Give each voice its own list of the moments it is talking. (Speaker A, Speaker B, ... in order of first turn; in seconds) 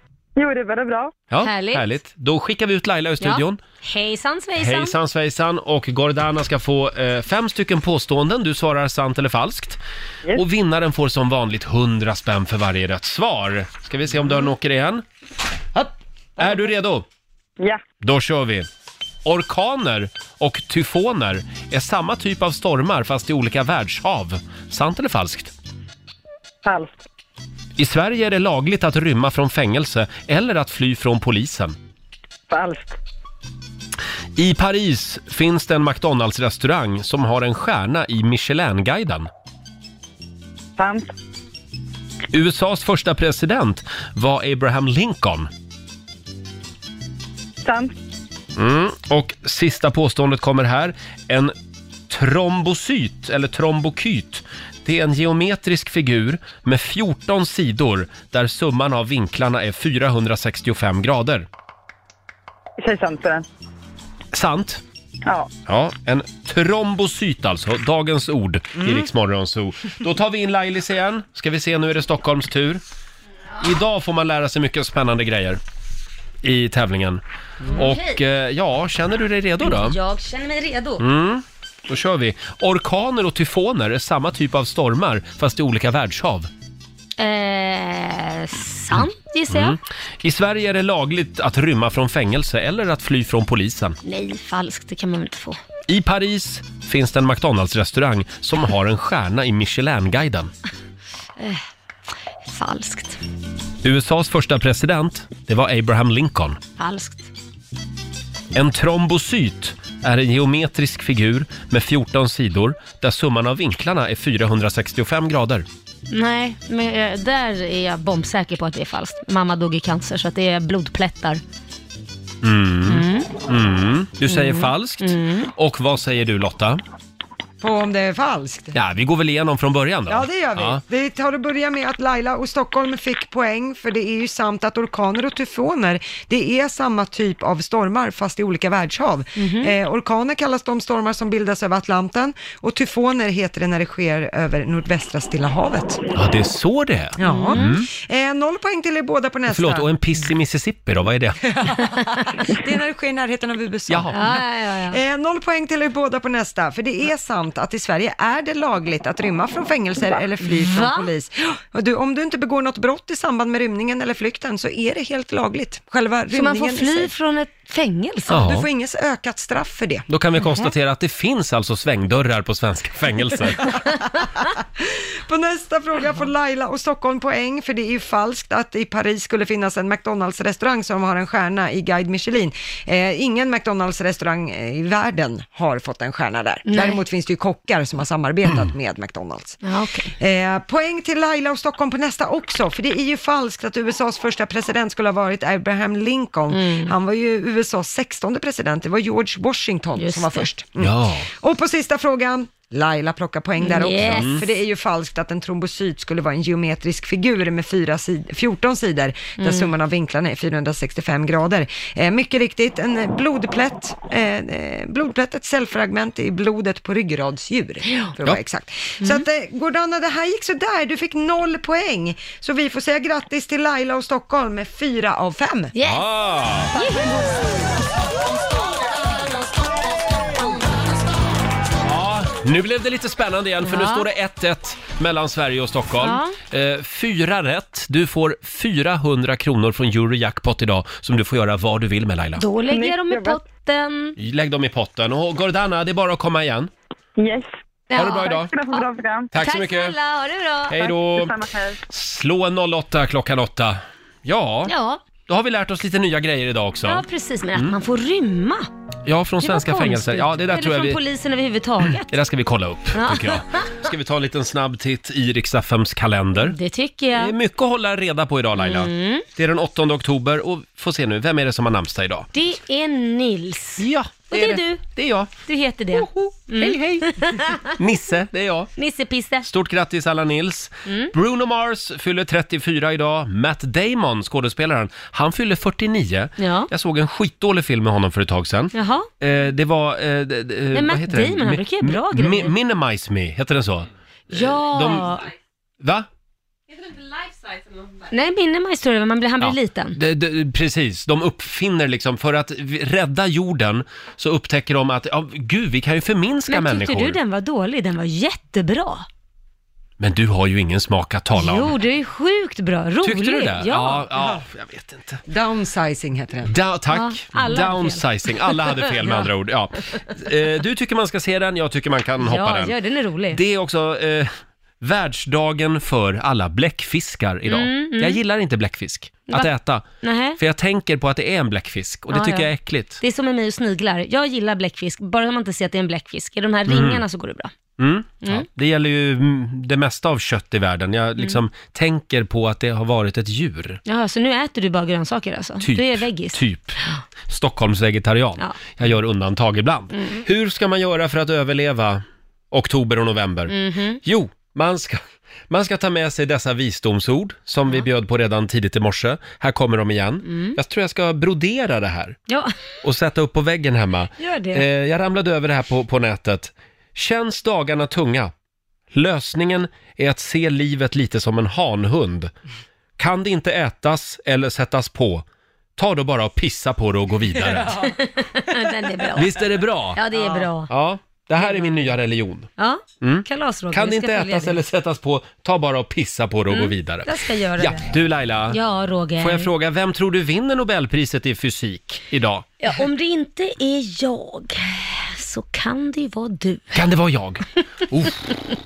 Speaker A: 0.3-1.1, 26.6-26.9, 32.5-33.0, 40.8-41.1, 47.6-47.9, 62.8-63.4, 242.7-243.4, 247.2-249.3, 250.8-251.8
Speaker B: 1.3-3.6, 4.6-9.8, 10.3-15.0, 16.4-17.1, 18.0-18.7, 19.2-25.5, 27.8-31.8, 34.4-39.3, 42.3-45.5, 48.5-51.5, 52.1-61.5, 64.3-64.8, 65.7-72.8, 73.6-75.6, 76.4-80.0, 81.0-86.5, 88.9-94.0, 95.9-100.5, 103.8-106.6, 108.5-115.7, 122.4-126.8, 128.7-130.8, 146.1-147.9, 149.5-151.4, 153.9-154.3, 168.3-168.6, 170.1-173.7, 200.8-201.3, 204.0-204.4, 225.8-226.7, 231.8-242.4, 244.2-246.7, 247.9-248.5, 249.3-250.0, 250.7-254.7, 255.3-257.0, 259.1-261.0, 261.9-266.6, 267.1-272.3, 273.8-275.3, 275.9-278.7, 279.4-295.2, 295.8-296.1, 299.4-307.2, 310.0-311.8, 313.0-315.2, 316.5-322.7, 323.3-333.0, 336.7-337.0, 337.8-343.8, 345.6-362.2, 362.8-368.3, 368.9-372.3, 373.0-375.2, 375.8-377.8, 379.1-380.0, 380.7-382.5, 383.0-388.6, 389.2-392.4, 396.7-398.2
Speaker C: 1.4-1.9, 3.2-5.0, 77.7-78.2, 79.6-81.0, 87.2-89.8, 94.0-95.6, 102.5-103.2, 106.8-107.3, 116.1-121.4, 122.9-123.3, 124.3-125.5, 139.4-139.7, 147.2-147.7, 154.1-155.0, 160.4-161.1, 166.3-168.5, 186.7-187.0, 189.6-190.1, 196.5-196.9, 200.0-200.5, 203.6-204.4, 209.4-209.7, 219.0-219.3, 225.7-226.1, 226.7-227.3, 233.6-234.0, 236.0-236.3, 242.4-244.1, 247.9-248.4, 249.3-250.8, 254.7-255.0, 256.9-258.7, 259.4-262.1, 262.9-263.7, 266.4-267.3, 268.6-269.2, 272.3-274.8, 275.4-277.7, 278.8-279.5, 286.4-286.7, 288.7-289.1, 290.7-292.5, 294.3-295.3, 298.0-300.0, 306.5-309.1, 311.4-314.1, 316.9-319.3, 322.2-323.4, 327.5-328.2, 329.3-330.4, 332.1-332.5, 333.0-337.5, 343.8-346.4, 353.5-354.0, 360.2-360.6, 362.3-362.5, 364.2-364.6, 377.7-380.7, 381.4-381.9, 382.6-384.6, 386.5-387.8, 388.5-389.5, 392.6-396.8
Speaker D: 127.6-128.7, 130.1-146.0, 147.2-149.9, 151.5-167.1, 168.4-170.1, 174.8-189.6, 190.2-225.7, 315.3-316.5